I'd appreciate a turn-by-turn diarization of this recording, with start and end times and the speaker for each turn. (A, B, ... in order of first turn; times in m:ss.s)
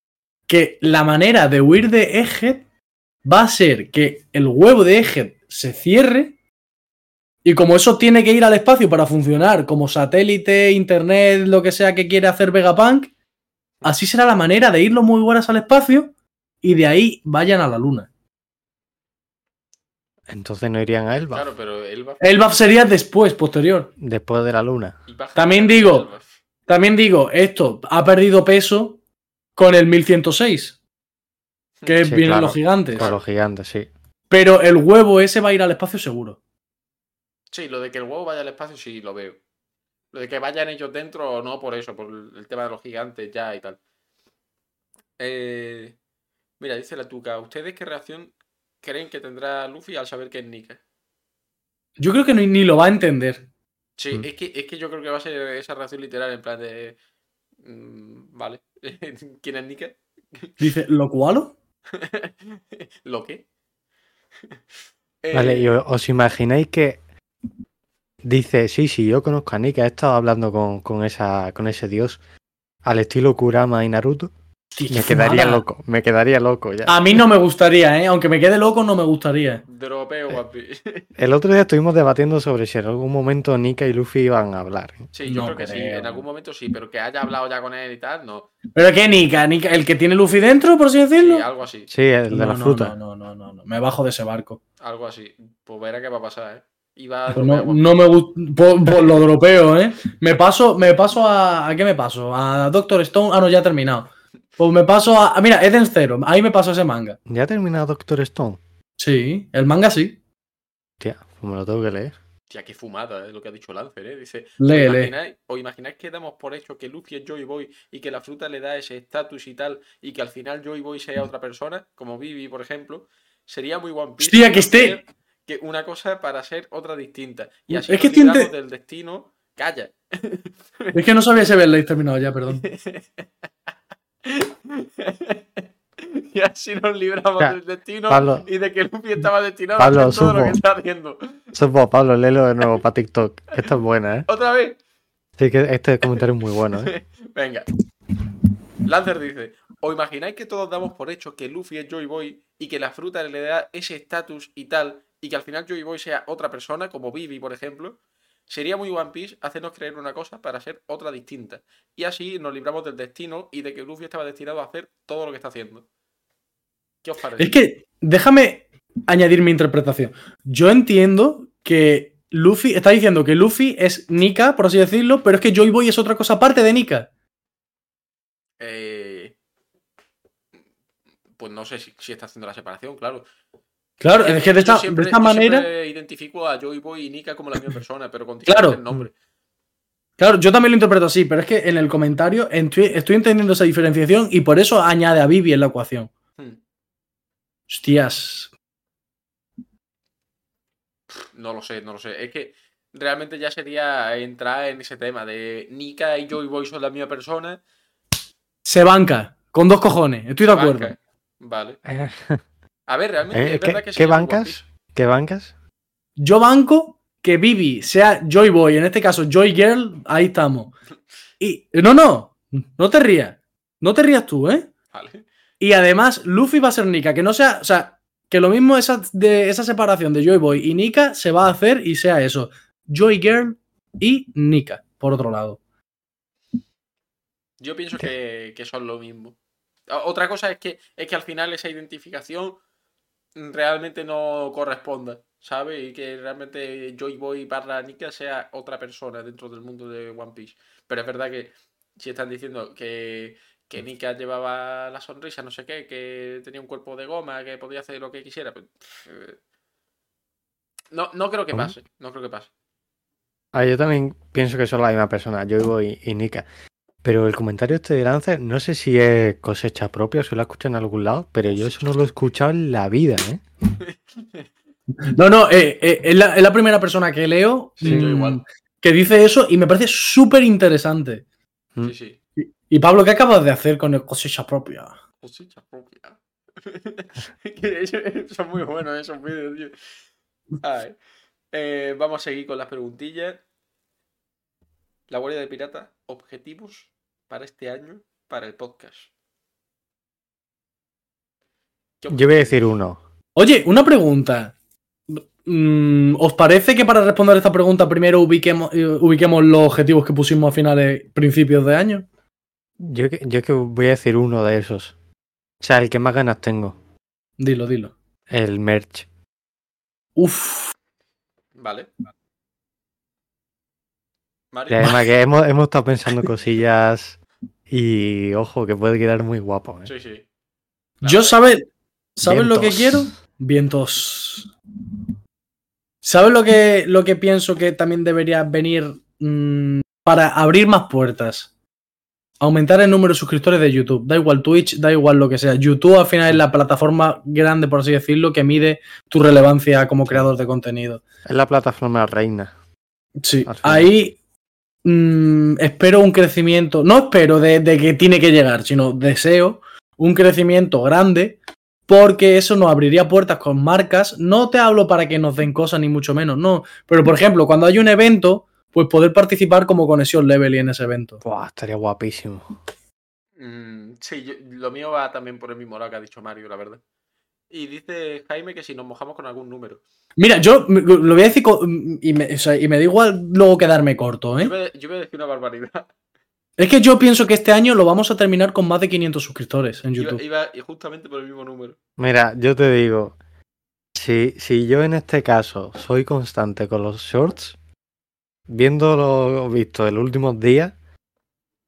0:00.5-0:02.6 A
0:03.2-0:06.3 A
0:07.4-0:13.1 A
0:13.8-0:16.1 A
0:16.6-0:18.1 A
0:20.3-0:21.5 B
0:21.3-0:22.2 C
0:22.2-0:23.9 A
0:24.0-0:25.0 B
0:25.1-0:26.3 C
0:25.4-0:26.1 A
0:26.7-0:29.0 A
0:29.6-0:30.8 A
0:31.8-0:33.0 A
0:32.0-0:33.9 B
0:33.0-0:33.2 C
0:34.3-0:36.4 A
0:37.5-0:39.4 C
0:40.1-0:43.8 C
0:45.2-0:46.0 C
0:46.6-0:50.8 C
0:52.0-0:53.4 A
0:54.0-0:57.0 C
0:57.6-1:00.6 C
1:00.6-1:01.5 A
1:01.9-1:03.4 C
1:05.2-1:05.7 C
1:05.3-1:07.0 B
1:08.2-1:12.2 B
1:12.8-1:14.3 B
1:14.7-1:15.6 A
1:14.9-1:17.2 B
1:16.9-1:19.6 A
1:19.7-1:21.0 C
1:21.2-1:25.1 B
1:25.1-1:28.5 C
1:25.2-1:26.2 A
1:28.7-1:31.4 A
1:31.2-1:31.9 C
1:31.9-1:33.0 B
1:32.3-1:34.6 A
1:34.8-1:38.0 C
1:37.3-1:47.2 A
1:47.3-1:48.6 B
1:49.0-1:50.2 A
1:51.0-1:52.1 B
1:52.5-2:10.9 C
1:54.6-1:55.1 A
2:04.2-2:05.0 A
2:07.7-2:08.5 A
2:10.9-2:12.6 A
2:12.5-2:13.3 C
2:14.2-2:21.5 C
2:18.1-2:18.4 B
2:19.8-2:20.6 B
2:21.5-2:24.3 B
2:24.3-2:24.8 C
2:25.4-2:26.9 B
2:26.8-2:27.7 C
2:28.8-2:45.8 C
2:47.0-2:47.6 C
2:47.4-2:57.1 A
2:58.6-2:59.3 C
3:01.4-3:03.3 C
3:04.0-3:05.7 A
3:04.2-3:09.1 C
3:08.5-3:08.8 A
3:10.2-3:16.1 A
3:17.7-3:18.5 A
3:21.2-3:27.6 C
3:28.6-3:30.9 A
3:30.5-3:31.8 C
3:31.8-3:32.4 B
3:32.9-3:34.6 C
3:33.3-3:35.5 B
3:36.2-3:40.7 A
3:41.4-3:44.7 A
3:44.9-3:45.2 C
3:45.6-3:55.6 A
3:57.6-3:59.4 C
3:59.9-4:02.6 C
4:03.4-4:19.4 C
4:20.9-4:22.5 C
4:23.5-4:26.5 B
4:27.0-4:33.4 B
4:33.8-4:34.4 C
4:35.0-4:41.2 A
4:37.8-4:38.4 C
4:41.8-4:42.2 C
4:42.4-4:44.9 A
4:45.2-4:49.7 C
4:50.6-4:51.0 C
4:51.5-4:53.4 C
4:55.1-4:59.1 C
5:02.0-5:02.7 C
5:02.1-5:03.0 B
5:03.4-5:04.5 A
5:05.1-5:12.0 A
5:12.8-5:14.9 B
5:15.6-5:16.8 B
5:17.4-5:17.9 A
5:18.3-5:19.1 B
5:20.2-5:20.7 A
5:21.6-5:21.9 C
5:24.5-5:24.9 C
5:24.7-5:27.2 B
5:27.7-5:29.9 B
5:29.8-5:30.2 C
5:31.0-5:31.5 C
5:31.0-5:34.5 A
5:32.2-5:33.1 B
5:36.0-5:41.5 A
5:42.4-5:51.0 A
5:51.2-5:52.5 B
5:53.2-5:54.2 A
5:53.4-5:53.9 B
5:54.8-6:01.4 A
6:01.9-6:11.2 A
6:11.2-6:12.4 B
6:13.4-6:16.8 C
6:17.5-6:19.8 C
6:20.2-6:24.5 A
6:24.4-6:25.9 C
6:26.6-6:30.2 A
6:30.0-6:31.8 C
6:32.0-6:33.2 B
6:33.9-6:37.6 B
6:38.5-6:40.7 B